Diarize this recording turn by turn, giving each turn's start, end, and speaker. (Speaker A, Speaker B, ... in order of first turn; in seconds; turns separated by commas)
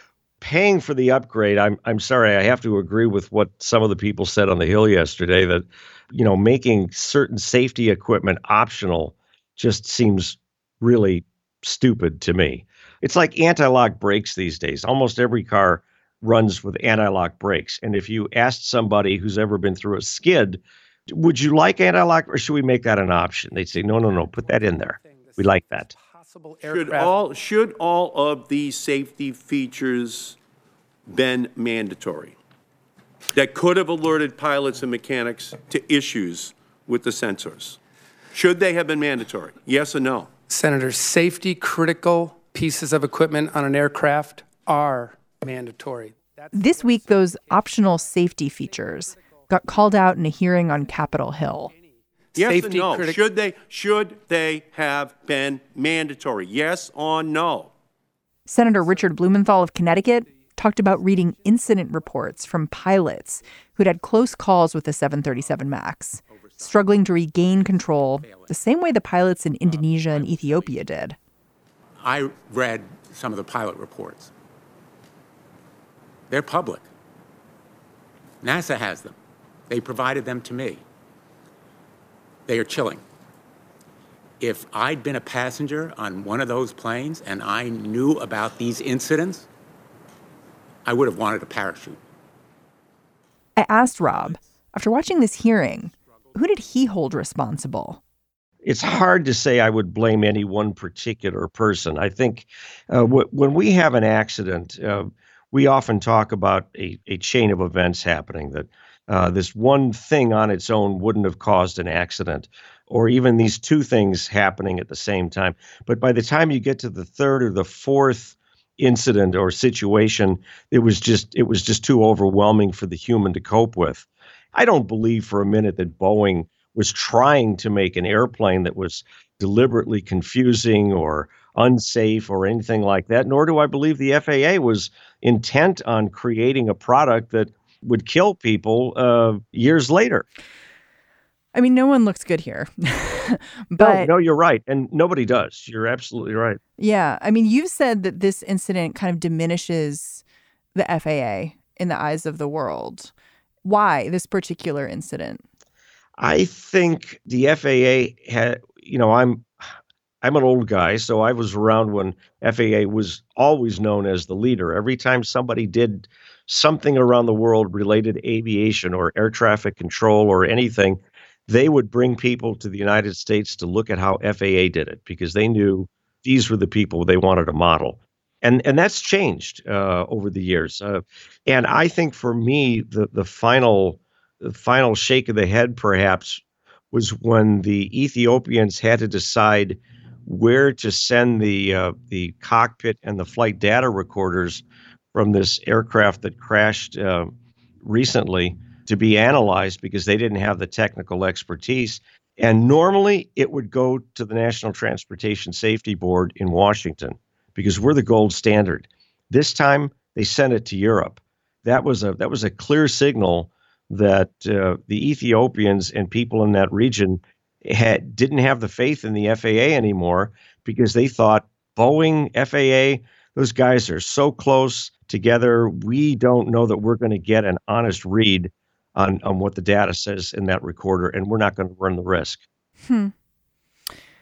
Speaker A: 0.4-25.9, Speaker B: 24.3-27.2, Speaker C: 26.6-30.4, Speaker C: 31.1-32.4, Speaker C: 33.3-37.8, Speaker C: 38.3-40.3, Speaker B: 40.5-47.3, Speaker D: 46.5-51.7, Speaker B: 52.3-53.3, Speaker C: 52.4-57.7, Speaker D: 58.5-71.2, Speaker E: 66.3-66.8, Speaker E: 67.5-68.6, Speaker E: 69.6-70.8, Speaker E: 72.0-74.3, Speaker E: 76.3-76.8, Speaker E: 78.4-79.2, Speaker E: 79.7-80.8, Speaker E: 82.5-83.0, Speaker E: 84.4-89.5, Speaker E: 90.8-92.0, Speaker D: 93.6-98.0, Speaker A: 98.7-140.2, Speaker D: 141.5-144.1, Speaker A: 143.8-146.6, Speaker D: 146.8-150.2, Speaker D: 150.8-153.1, Speaker D: 153.7-155.4, Speaker A: 156.2-159.5, Speaker A: 160.2-197.3, Speaker A: 197.8-232.4, Speaker D: 232.8-233.1